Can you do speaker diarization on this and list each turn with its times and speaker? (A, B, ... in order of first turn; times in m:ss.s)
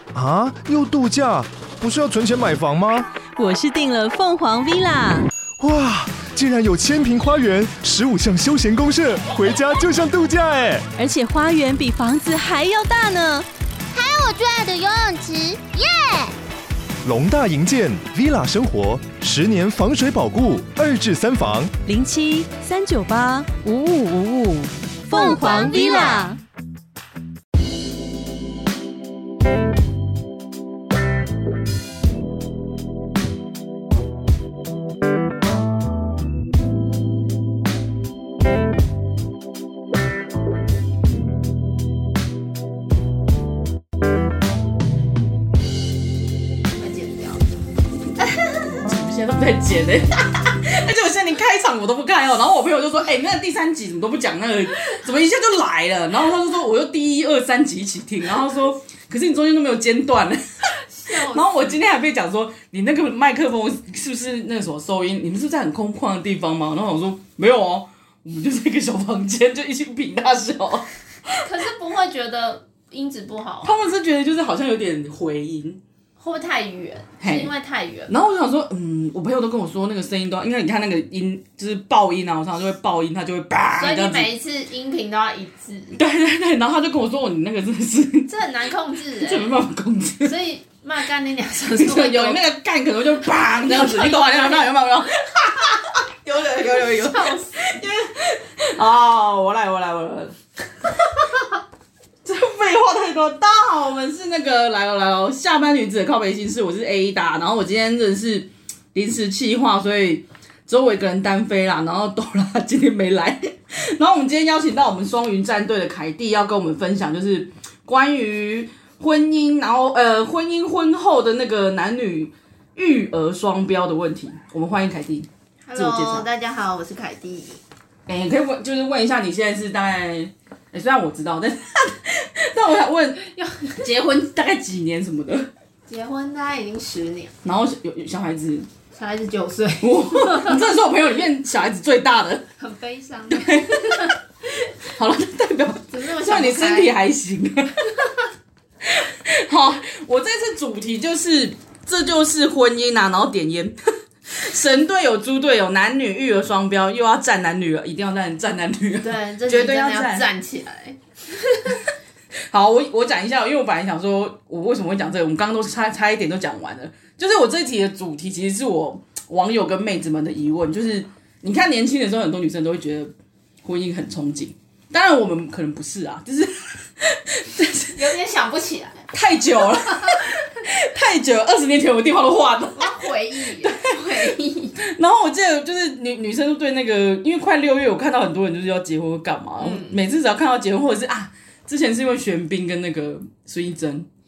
0:00.1-0:03.1 A
0:03.4-0:05.3 B
0:05.6-0:10.9 A
0:11.0-0:13.5 B
0:13.9-0:16.4 C
0:17.0-0:21.7 A
0:21.9-0:26.4 B
0:25.1-0:26.3 C
0:25.2-0:26.3 D
0:46.7-0:47.4 D
0:48.6-1:00.4 E
1:01.0-1:01.6 D
1:01.1-1:11.4 E
1:11.4-1:13.7 D
1:13.6-1:15.8 E
1:16.2-1:18.1 D
1:17.2-1:17.5 E
1:18.1-1:24.3 E
1:23.8-1:26.0 D
1:26.0-1:28.4 E
1:28.3-1:29.6 D
1:29.2-1:30.4 E
1:30.2-1:32.4 D
1:31.7-1:40.4 E
1:33.6-1:34.7 D
1:36.9-1:37.6 D
1:42.2-2:06.3 E
2:05.7-2:07.6 D
2:08.1-2:13.2 E
2:13.2-2:13.8 D
2:13.8-2:15.5 E
2:15.9-2:17.3 D
2:17.4-2:18.7 E
2:19.0-2:20.6 D
2:19.8-2:22.4 E
2:22.6-2:24.2 D
2:23.3-2:24.1 E
2:24.9-2:28.1 E
2:25.9-2:26.9 D
2:28.8-2:33.8 E
2:34.3-2:40.3 E
2:39.0-2:41.8 D
2:42.5-2:53.1 E
2:53.6-2:58.0 E
2:57.9-2:59.0 D
2:59.1-3:14.1 E
2:59.8-3:00.3 D
3:02.8-3:04.8 D
3:09.6-3:10.0 D